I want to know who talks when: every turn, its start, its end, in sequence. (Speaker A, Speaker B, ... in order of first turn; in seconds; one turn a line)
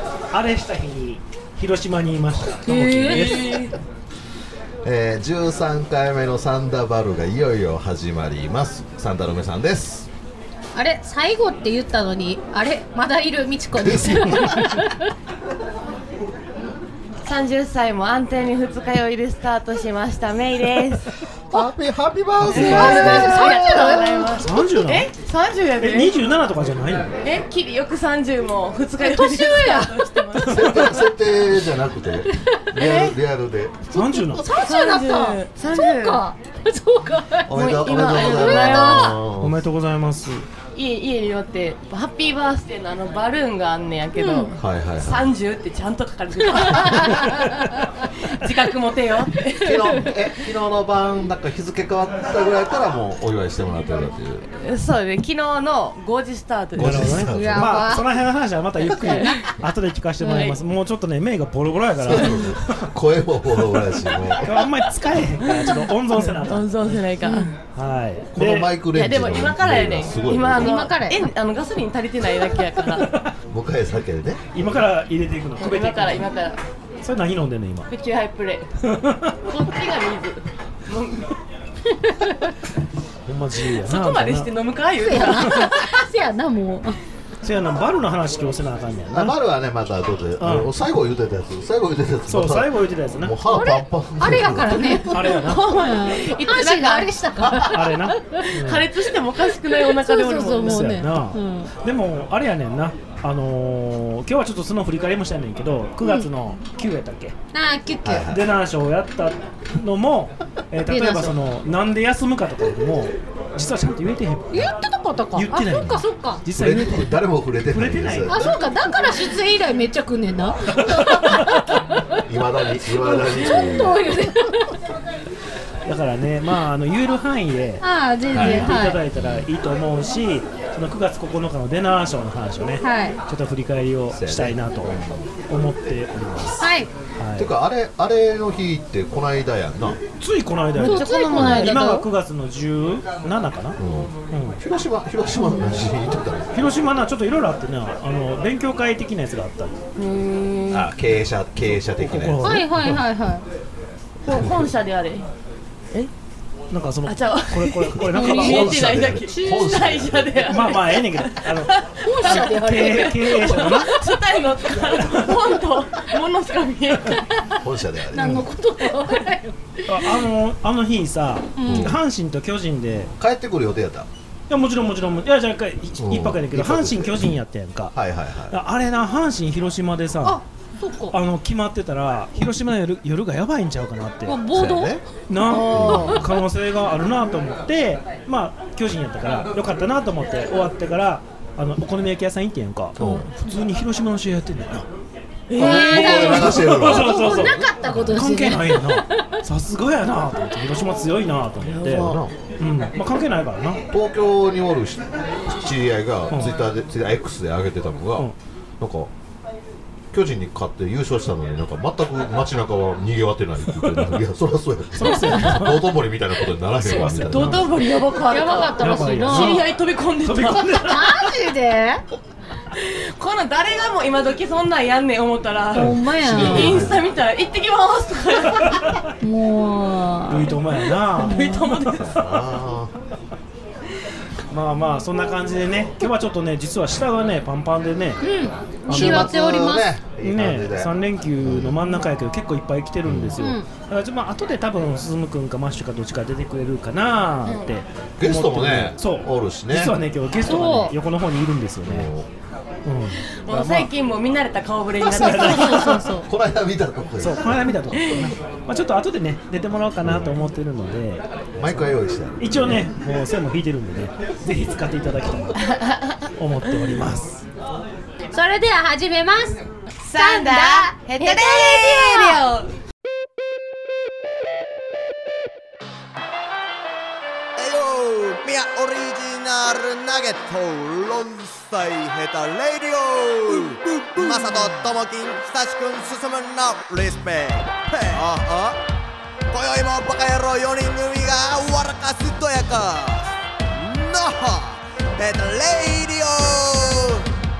Speaker A: 0.3-3.6
Speaker B: 2.7-3.7
Speaker C: 4.8-10.1
Speaker B: 10.8-15.1
Speaker C: 13.8-14.8
Speaker D: 17.2-21.1
Speaker C: 21.5-23.9
Speaker A: 22.4-23.3
Speaker D: 22.5-26.1
Speaker B: 22.5-24.5
Speaker A: 24.4-25.1
Speaker A: 25.8-27.1
Speaker D: 27.2-30.7
Speaker B: 29.0-30.1
Speaker C: 30.4-34.4
Speaker D: 32.8-33.1
Speaker A: 33.9-34.4
Speaker B: 34.3-39.2
Speaker D: 34.6-36.2
Speaker C: 37.5-39.6
Speaker D: 37.5-39.1
Speaker A: 39.4-40.5
Speaker D: 40.8-47.3
Speaker B: 44.1-44.6
Speaker C: 44.6-45.3
Speaker B: 46.6-47.9
Speaker D: 48.1-49.8
Speaker C: 49.5-54.5
Speaker D: 54.6-57.2
Speaker C: 56.8-58.0
Speaker A: 56.8-62.9
Speaker B: 57.2-58.1
Speaker B: 58.9-59.5
Speaker B: 60.2-60.6
Speaker C: 62.0-64.6
Speaker A: 64.4-67.0
Speaker D: 65.5-67.5
Speaker B: 67.2-67.5
Speaker A: 67.8-68.7
Speaker C: 68.3-70.9
Speaker D: 68.9-73.1
Speaker B: 70.6-71.2
Speaker A: 73.0-73.3
Speaker C: 73.5-74.7
Speaker A: 74.5-76.3
Speaker D: 75.6-76.6
Speaker A: 77.0-77.9
Speaker D: 77.9-78.7
Speaker A: 78.8-79.4
Speaker D: 79.5-81.3
Speaker B: 82.0-82.5
Speaker A: 83.3-84.5
Speaker D: 83.8-85.7
Speaker B: 85.0-87.0
Speaker A: 87.4-89.4
Speaker C: 89.1-95.2
Speaker A: 90.4-90.7
Speaker A: 92.3-93.4
Speaker B: 93.5-98.5
Speaker A: 95.1-95.7
Speaker D: 95.3-97.5
Speaker A: 97.6-98.9
Speaker D: 98.5-101.0
Speaker B: 99.5-101.7
Speaker A: 100.7-107.4
Speaker B: 106.0-106.3
Speaker B: 107.5-108.3
Speaker C: 108.0-108.5
Speaker A: 108.3-114.7
Speaker B: 110.9-111.3
Speaker B: 114.5-116.4
Speaker A: 115.3-118.5
Speaker C: 116.5-118.6
Speaker B: 118.3-122.2
Speaker A: 120.8-121.6
Speaker C: 122.2-124.0
Speaker B: 123.0-124.7
Speaker A: 125.8-134.9
Speaker B: 127.8-129.0
Speaker C: 128.3-129.5
Speaker B: 132.8-133.2
Speaker C: 134.1-135.2
Speaker A: 135.5-137.5
Speaker B: 136.6-136.9
Speaker C: 137.4-140.0
Speaker A: 140.2-143.8
Speaker B: 140.8-142.1
Speaker D: 140.8-142.0
Speaker C: 141.3-141.7
Speaker C: 143.8-146.5
Speaker A: 144.3-144.6
Speaker B: 145.3-145.8
Speaker A: 146.5-149.8
Speaker B: 150.0-150.7
Speaker C: 150.7-152.7
Speaker A: 151.7-153.0
Speaker B: 152.4-153.4
Speaker D: 154.2-155.3
Speaker C: 154.3-154.7
Speaker A: 156.7-159.0
Speaker D: 157.1-167.2
Speaker B: 158.2-158.7
Speaker C: 158.2-160.5
Speaker B: 159.4-159.6
Speaker A: 160.5-163.9
Speaker B: 162.0-163.5
Speaker A: 165.0-165.3
Speaker C: 167.6-168.5
Speaker B: 168.1-170.2
Speaker A: 169.9-173.1
Speaker B: 171.6-171.9
Speaker C: 171.6-172.0
Speaker C: 173.2-174.1
Speaker A: 174.5-177.9
Speaker C: 176.0-177.3
Speaker C: 177.9-178.6
Speaker A: 178.5-180.4
Speaker B: 180.2-181.2
Speaker A: 181.1-184.4
Speaker B: 184.2-185.0
Speaker C: 184.5-185.0
Speaker A: 185.3-194.9
Speaker D: 185.4-186.2
Speaker C: 185.7-186.2
Speaker C: 193.0-193.3
Speaker B: 193.0-193.2
Speaker D: 195.5-196.3
Speaker C: 195.6-198.0
Speaker B: 195.6-199.2
Speaker A: 195.9-203.8
Speaker C: 201.8-202.3
Speaker C: 203.9-209.1
Speaker C: 210.1-217.7
Speaker A: 213.7-214.2
Speaker A: 214.9-215.9
Speaker A: 216.8-217.7
Speaker D: 217.2-220.7
Speaker B: 218.3-219.6
Speaker A: 218.8-219.7
Speaker A: 220.2-221.2
Speaker B: 220.7-222.0
Speaker D: 222.8-228.8
Speaker B: 225.7-226.9
Speaker A: 225.8-226.8
Speaker C: 226.2-227.1
Speaker A: 228.5-228.9
Speaker B: 229.2-230.6
Speaker A: 230.3-232.3
Speaker B: 231.2-231.7
Speaker D: 231.2-232.0
Speaker C: 231.9-232.9
Speaker A: 234.5-238.2
Speaker B: 238.2-239.9
Speaker A: 238.9-239.3
Speaker C: 238.9-241.8
Speaker A: 240.2-252.1
Speaker C: 243.1-243.4
Speaker B: 243.4-243.7
Speaker C: 248.2-249.9
Speaker B: 250.4-250.9
Speaker C: 251.9-252.3
Speaker A: 252.9-253.9
Speaker D: 253.5-255.9
Speaker A: 255.1-256.0
Speaker B: 255.4-256.3
Speaker C: 256.2-258.3
Speaker A: 257.2-265.6
Speaker C: 260.0-260.4
Speaker C: 261.6-262.9
Speaker D: 265.7-266.1
Speaker A: 266.4-267.4
Speaker B: 268.3-269.6
Speaker D: 270.1-272.7
Speaker B: 270.1-272.4
Speaker E: 277.6-288.8
Speaker E: 289.5-297.2